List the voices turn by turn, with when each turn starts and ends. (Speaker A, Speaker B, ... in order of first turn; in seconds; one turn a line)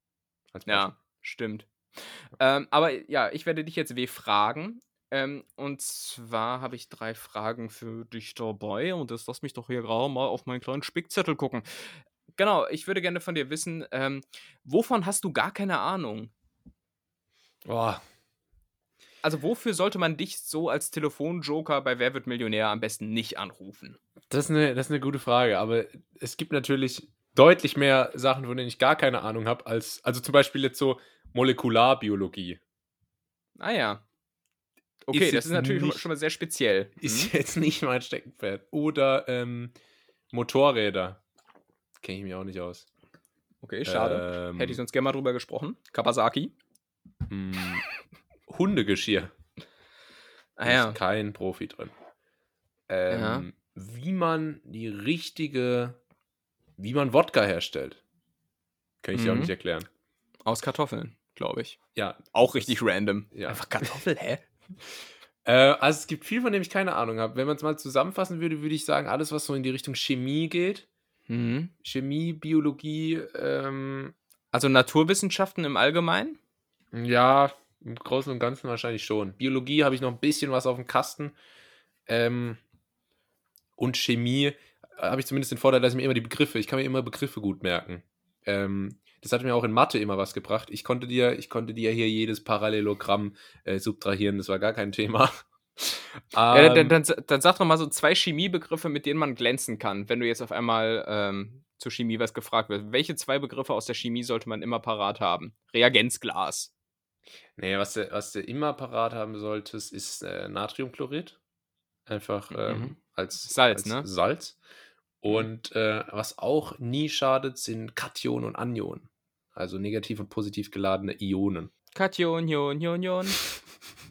Speaker A: 0.5-0.9
Speaker B: 0.7-16.3
Speaker A: 17.6-18.0
Speaker B: 19.2-24.0
Speaker A: 24.3-32.6
Speaker B: 33.6-34.0
Speaker B: 35.1-37.3
Speaker A: 35.1-36.1
Speaker A: 37.0-39.7
Speaker A: 40.3-41.2
Speaker A: 42.0-42.9
Speaker B: 43.6-46.5
Speaker A: 43.9-44.8
Speaker A: 47.3-47.8
Speaker A: 48.5-49.3
Speaker B: 50.6-51.0
Speaker A: 50.6-51.9
Speaker A: 52.9-56.0
Speaker B: 53.1-53.5
Speaker A: 56.8-58.0
Speaker A: 59.0-59.9
Speaker B: 59.1-59.5
Speaker B: 60.5-61.8
Speaker A: 62.0-62.8
Speaker B: 62.3-64.4
Speaker A: 63.3-63.9
Speaker A: 65.5-70.9
Speaker B: 71.3-71.7
Speaker A: 71.8-74.1
Speaker B: 74.5-76.4
Speaker A: 76.9-81.3
Speaker A: 82.1-82.6
Speaker A: 83.8-97.0
Speaker B: 96.5-106.7
Speaker A: 107.6-111.4
Speaker A: 112.1-114.6
Speaker B: 112.5-114.1
Speaker A: 115.2-121.7
Speaker B: 121.9-123.4